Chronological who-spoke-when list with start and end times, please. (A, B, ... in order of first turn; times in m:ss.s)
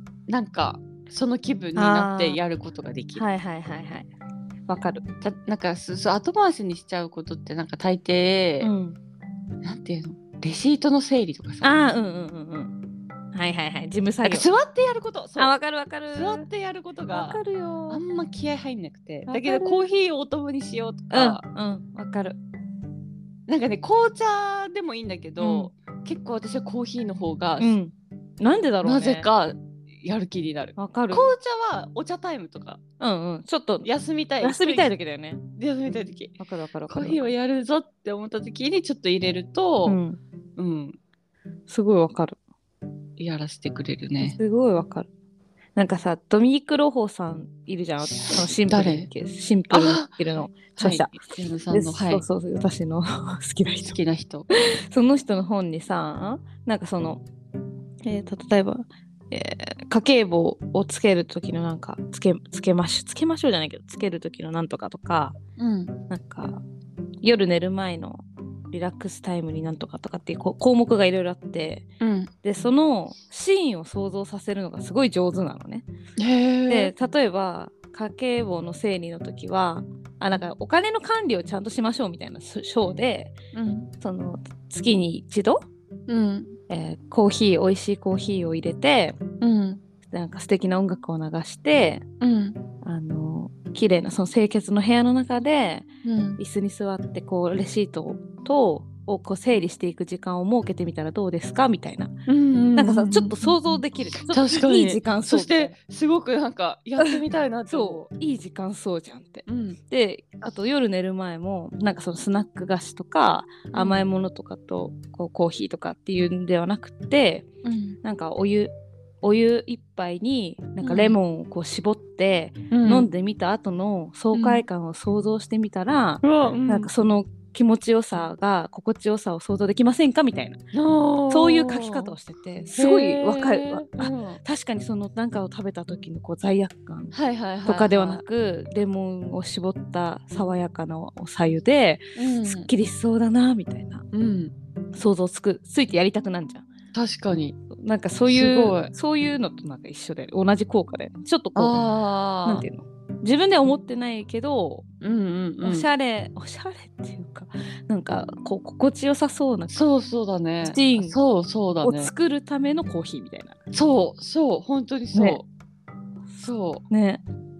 0:00.3-0:03.2 A
0:01.8-0:02.4 B
0:03.1-0:04.1 B
0:04.7-0:05.0 B
0:05.2-0:08.7 A
0:08.6-0:09.0 B
0:09.6-0:11.7 A
0:11.6-0:12.7 B
0:13.3-0:14.5 B
0:14.2-0:15.5 A
0:15.4-0:16.5 B
0:16.1-0:21.4 A
0:17.1-0:18.0 B
0:19.3-0:19.8 B
0:21.1-0:22.4 B
0:23.5-0:27.7 A
0:25.4-0:25.7 B
0:27.6-0:29.3 B
0:28.8-0:32.8 A
0:30.8-0:31.3 B
0:33.0-0:33.9 B
0:33.8-0:34.9 A
0:34.4-0:35.4 B
0:35.6-0:40.0 A
0:36.4-0:37.2 B
0:39.8-0:40.2 B
0:40.6-0:41.0 A
0:41.7-0:42.4 B
0:43.2-0:44.4 A
0:44.2-0:45.1 B
0:45.8-0:51.2 B
0:48.7-0:49.1 A
0:49.7-0:50.1 A
0:50.8-0:52.2 A
0:51.7-0:54.0 B
0:53.8-0:54.5 A
0:54.5-0:57.2 B
0:58.0-1:05.4 B
1:05.6-1:06.0 A
1:06.1-1:06.6 B
1:07.2-1:11.8 B
1:12.0-1:12.3 A
1:12.4-1:15.8 B
1:16.2-1:16.9 A
1:16.7-1:23.3 B
1:23.5-1:23.9 A
1:24.0-1:25.6 B
1:26.1-1:26.6 A
1:26.7-1:29.2 B
1:29.4-1:29.8 A
1:30.1-1:32.0 B
1:32.2-1:32.6 A
1:32.8-1:42.1 B
1:36.0-1:36.4 A
1:42.3-1:43.7 A
1:42.8-1:45.7 B
1:44.3-1:48.0 A
1:47.1-1:57.5 B
1:49.5-1:49.8 A
1:53.7-1:54.0 A
1:57.6-1:58.0 A
1:58.0-2:10.6 B
2:00.8-2:01.2 A
2:02.7-2:03.1 A
2:04.3-2:04.6 A
2:06.2-2:06.9 A
2:10.7-2:12.1 A
2:11.3-2:17.1 B
2:12.8-2:14.4 A
2:17.1-2:18.2 A
2:17.6-2:24.0 B
2:22.2-2:22.7 A
2:24.1-2:24.5 A
2:24.9-2:26.7 B
2:26.9-2:27.6 A
2:27.7-2:31.8 B
2:28.3-2:28.9 A
2:31.6-2:32.6 A
2:32.4-2:34.8 B
2:35.0-2:35.9 A
2:35.6-2:39.8 B
2:39.7-2:42.1 A
2:40.6-2:41.2 B
2:41.8-2:43.6 B
2:43.7-2:45.4 A
2:45.1-2:45.4 B
2:46.4-2:46.8 A
2:46.9-2:47.2 B